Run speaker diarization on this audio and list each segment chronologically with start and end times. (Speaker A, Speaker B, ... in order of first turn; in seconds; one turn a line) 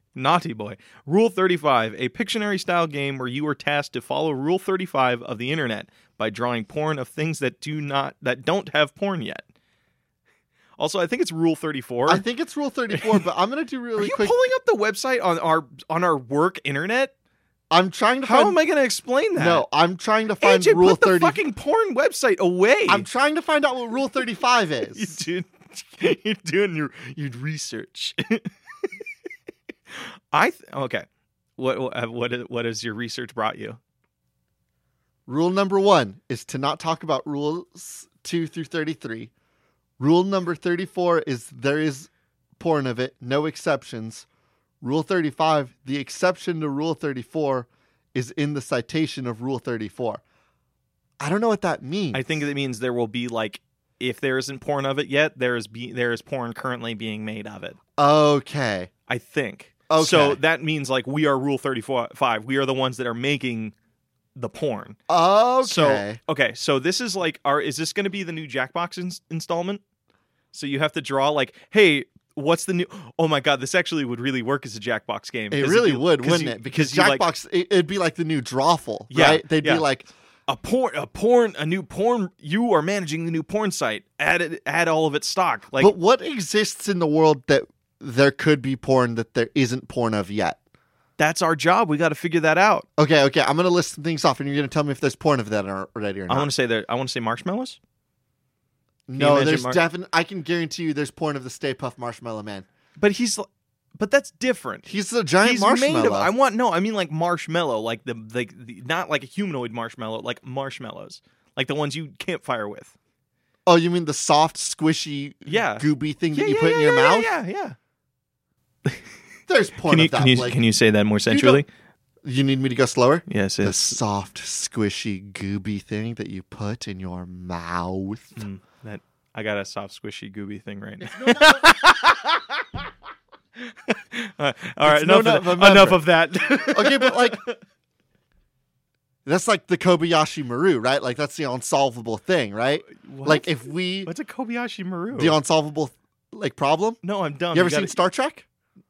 Speaker A: 0.1-9.4
Speaker A: 10.8-12.2
Speaker B: 12.1-14.3
Speaker A: 14.0-17.1
Speaker B: 17.7-18.6
Speaker A: 18.2-19.6
Speaker B: 19.4-21.4
Speaker A: 20.4-23.1
Speaker B: 22.9-25.2
Speaker A: 24.9-28.5
Speaker A: 30.3-31.1
Speaker A: 31.6-33.8
Speaker B: 35.3-39.3
Speaker B: 40.0-44.2
Speaker B: 44.8-50.2
Speaker B: 51.2-52.3
Speaker A: 52.1-57.8
Speaker B: 58.0-58.9
Speaker A: 59.1-63.7
Speaker B: 59.9-60.4
Speaker A: 64.3-65.0
Speaker B: 65.1-66.2
Speaker A: 65.6-69.8
Speaker A: 70.5-77.2
Speaker B: 75.5-80.1
Speaker A: 79.1-79.9
Speaker A: 80.5-85.9
Speaker B: 85.8-90.6
Speaker A: 91.2-92.8
Speaker B: 93.0-96.5
Speaker A: 96.3-97.8
Speaker B: 99.1-102.6
Speaker A: 99.2-99.8
Speaker A: 103.0-103.5
Speaker A: 104.0-104.8
Speaker B: 104.8-106.3
Speaker A: 105.4-112.9
Speaker B: 113.7-117.3
Speaker A: 115.5-117.8
Speaker B: 119.5-120.6
Speaker A: 119.9-121.7
Speaker B: 121.3-121.6
Speaker B: 122.2-128.4
Speaker A: 123.3-124.0
Speaker A: 128.4-132.6
Speaker B: 131.0-131.8
Speaker A: 133.6-137.6
Speaker B: 134.8-136.0
Speaker B: 136.7-137.4
Speaker B: 139.2-144.1
Speaker A: 142.8-145.4
Speaker B: 145.1-147.0
Speaker A: 147.0-148.0
Speaker B: 147.5-148.4